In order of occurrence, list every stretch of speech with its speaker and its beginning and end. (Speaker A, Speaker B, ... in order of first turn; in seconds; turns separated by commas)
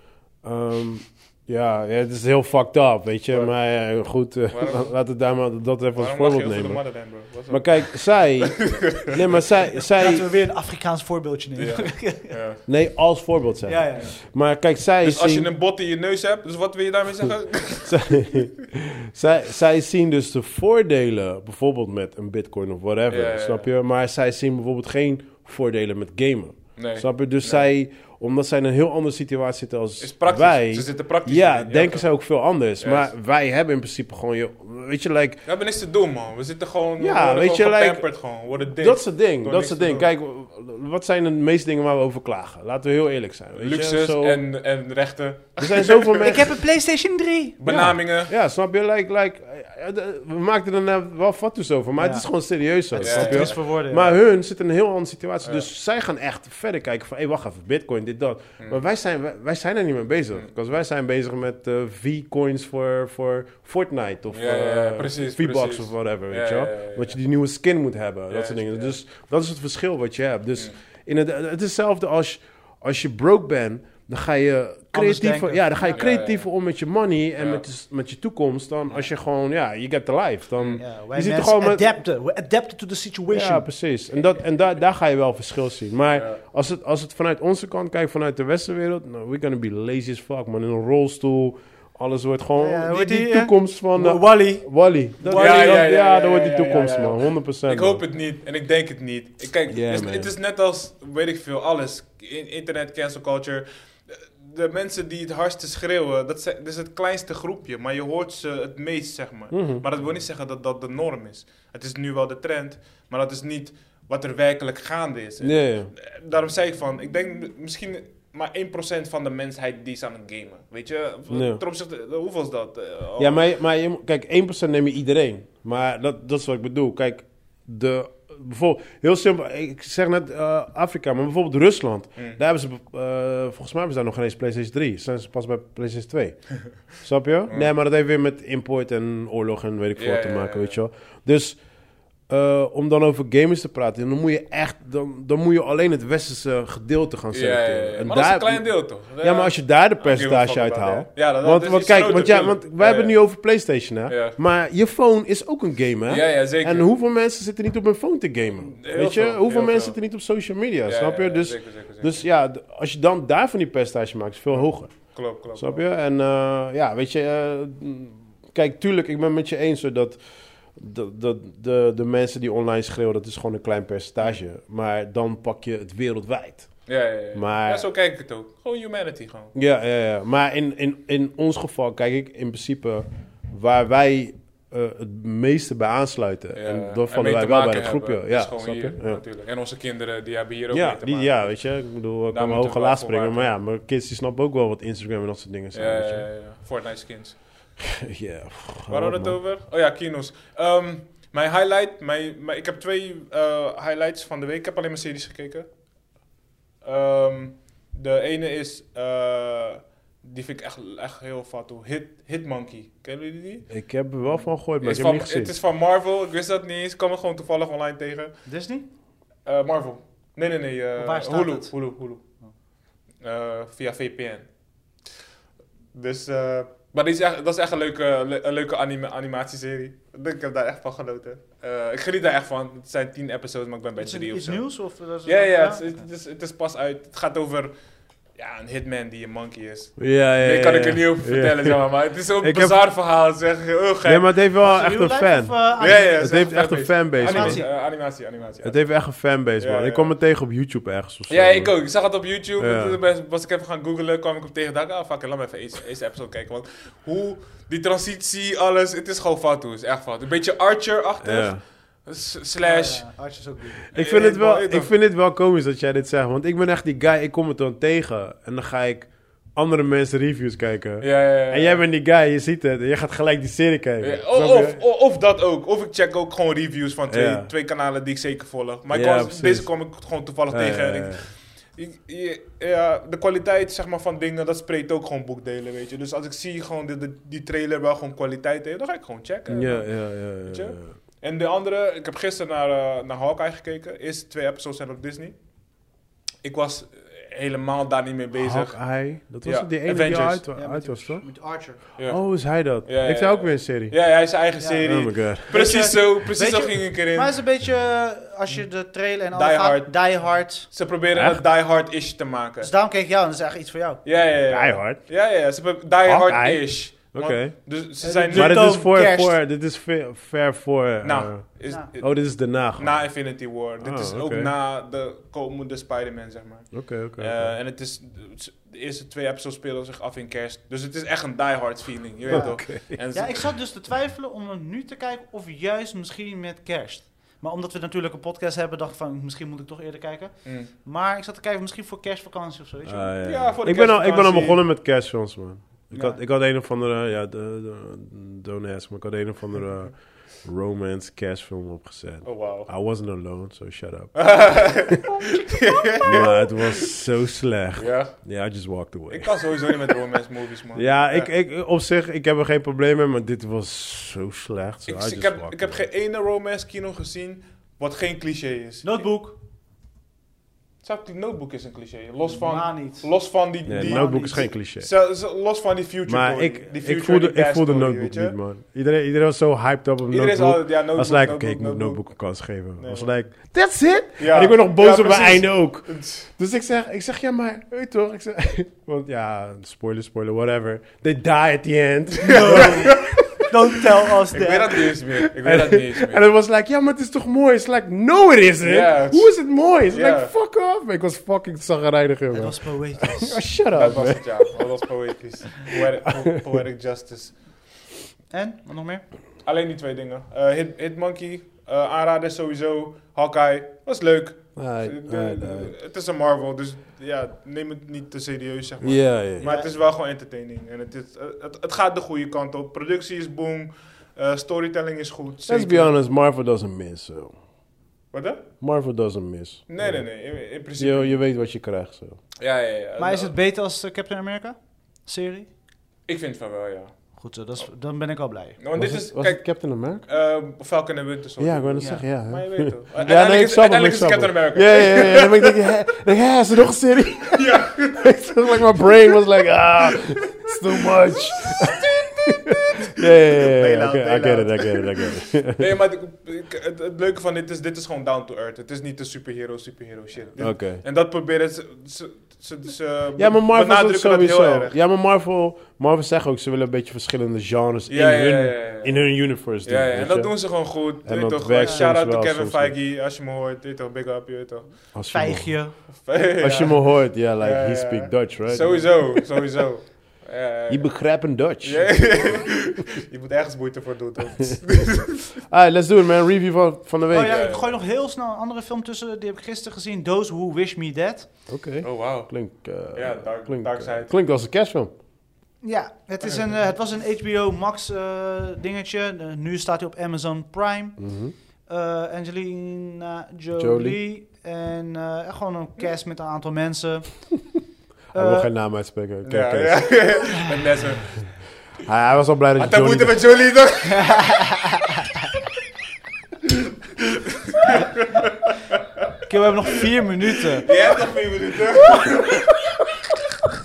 Speaker A: 0.4-7.0, Speaker B: 4.5-5.0, Speaker B: 6.0-9.4, Speaker A: 7.5-10.3, Speaker C: 10.0-12.3, Speaker B: 11.6-12.6, Speaker A: 12.7-15.5, Speaker C: 13.7-14.1, Speaker B: 15.0-18.2, Speaker A: 17.8-35.4, Speaker B: 23.1-23.7, Speaker B: 26.8-27.7, Speaker B: 30.0-32.1, Speaker B: 32.8-33.1, Speaker B: 35.5-40.1, Speaker A: 37.0-38.1, Speaker A: 38.6-44.5, Speaker B: 43.6-46.4, Speaker A: 45.6-46.6, Speaker C: 46.2-47.6, Speaker B: 47.6-48.3, Speaker A: 47.7-81.9, Speaker C: 52.0-52.3, Speaker C: 52.9-54.2, Speaker B: 53.0-53.6, Speaker B: 55.4-55.7, Speaker B: 64.3-67.2, Speaker B: 68.3-69.0, Speaker C: 74.9-76.0, Speaker B: 75.9-76.5, Speaker B: 77.4-77.6, Speaker B: 80.6-80.8, Speaker C: 80.8-83.7, Speaker A: 83.3-98.0, Speaker B: 86.1-86.4, Speaker C: 92.6-95.9, Speaker B: 95.3-123.4, Speaker A: 99.7-100.3, Speaker A: 109.5-109.9, Speaker A: 115.4-115.9, Speaker A: 121.3-121.6, Speaker A: 123.2-141.6, Speaker B: 140.0-140.8, Speaker A: 142.3-170.2, Speaker B: 147.3-153.2, Speaker B: 154.1-154.4, Speaker B: 156.1-156.9, Speaker B: 158.8-160.0, Speaker B: 160.9-162.2, Speaker B: 164.5-165.8, Speaker A: 170.8-177.9, Speaker B: 176.9-179.5, Speaker A: 179.6-189.2, Speaker B: 186.6-191.5, Speaker A: 190.7-196.3, Speaker B: 192.3-193.5, Speaker B: 195.7-197.4, Speaker A: 197.8-199.4, Speaker B: 198.9-205.7, Speaker B: 206.8-213.7, Speaker A: 213.7-215.5, Speaker B: 214.2-218.3, Speaker C: 218.5-218.9, Speaker B: 219.5-222.2, Speaker C: 221.0-221.7, Speaker B: 223.2-224.4, Speaker B: 225.9-234.6, Speaker C: 234.0-236.0, Speaker B: 235.3-237.7, Speaker B: 238.4-244.3, Speaker A: 240.0-241.8, Speaker A: 242.4-242.8, Speaker A: 244.1-247.7, Speaker C: 244.6-246.4, Speaker B: 245.8-248.8, Speaker C: 247.2-247.7, Speaker A: 248.6-251.8, Speaker B: 249.6-250.1, Speaker B: 251.3-263.1, Speaker A: 252.6-253.0, Speaker A: 261.2-261.6, Speaker C: 262.6-263.8, Speaker B: 263.9-264.9, Speaker A: 263.9-274.8, Speaker B: 271.0-271.8, Speaker B: 274.0-295.4, Speaker A: 277.1-277.5, Speaker A: 278.9-279.7, Speaker A: 280.5-281.3, Speaker A: 289.5-290.9, Speaker B: 296.4-298.9, Speaker A: 298.3-301.3, Speaker B: 299.4-300.4, Speaker C: 300.5-301.8, Speaker B: 302.0-307.4, Speaker A: 302.0-304.0, Speaker C: 304.6-304.9, Speaker A: 304.8-305.8, Speaker C: 305.4-310.7, Speaker B: 309.3-312.7, Speaker A: 311.1-311.4, Speaker C: 312.6-314.0, Speaker B: 314.1-318.8, Speaker A: 314.5-315.1, Speaker A: 316.1-317.6, Speaker C: 318.0-319.4, Speaker A: 318.3-323.2, Speaker B: 321.0-333.6, Speaker A: 323.8-324.5, Speaker A: 326.7-327.6, Speaker A: 332.3-333.0, Speaker C: 332.3-343.1, Speaker B: 340.4-340.7, Speaker A: 342.9-355.0, Speaker B: 343.2-344.6, Speaker C: 345.9-346.2, Speaker B: 352.2-352.7, Speaker B: 354.1-356.9, Speaker A: 356.0-360.0, Speaker B: 357.8-358.2, Speaker B: 359.1-361.3, Speaker A: 360.7-365.8, Speaker B: 364.9-369.0, Speaker C: 368.8-369.4, Speaker B: 370.8-378.4, Speaker C: 372.3-373.1, Speaker A: 373.7-374.9, Speaker C: 373.7-374.5, Speaker A: 376.1-393.4, Speaker B: 380.1-382.1, Speaker B: 382.8-383.1, Speaker B: 384.2-386.3, Speaker C: 392.2-394.9, Speaker B: 392.2-393.3, Speaker B: 394.3-396.2, Speaker A: 395.1-404.7, Speaker B: 398.6-399.4, Speaker B: 399.9-400.3, Speaker C: 402.3-403.4, Speaker B: 403.7-407.4, Speaker C: 408.3-409.0, Speaker B: 409.4-425.9, Speaker A: 414.6-415.7, Speaker A: 418.8-419.5, Speaker C: 419.4-419.7, Speaker A: 425.5-427.4, Speaker B: 428.1-428.4, Speaker A: 428.6-430.1, Speaker B: 429.7-431.2, Speaker A: 430.8-432.2, Speaker B: 432.4-433.3, Speaker C: 433.0-435.5, Speaker B: 436.1-436.9, Speaker C: 437.2-438.6, Speaker B: 438.6-439.5, Speaker A: 438.8-440.1, Speaker B: 440.1-445.6, Speaker A: 441.4-455.7, Speaker C: 441.8-442.1, Speaker B: 447.3-448.2, Speaker B: 449.9-452.1, Speaker B: 453.0-464.8, Speaker A: 460.4-460.8, Speaker A: 463.2-470.5, Speaker B: 467.9-469.0, Speaker B: 469.6-474.7, Speaker A: 471.0-472.7, Speaker C: 471.6-471.9, Speaker A: 474.9-479.2, Speaker C: 475.1-475.8, Speaker B: 476.1-481.0, Speaker A: 480.7-482.4, Speaker B: 481.6-485.2, Speaker A: 485.5-487.4, Speaker C: 487.1-491.3, Speaker B: 487.2-487.7, Speaker A: 491.5-494.9, Speaker B: 491.8-494.1, Speaker C: 495.6-501.0, Speaker A: 501.0-501.3, Speaker C: 501.7-507.3, Speaker A: 503.6-504.0, Speaker C: 508.1-508.5, Speaker A: 508.1-510.0, Speaker B: 509.2-511.3, Speaker A: 511.8-513.2, Speaker B: 512.6-514.3, Speaker C: 513.9-515.3, Speaker B: 517.0-519.1, Speaker C: 519.3-520.7, Speaker B: 520.6-522.7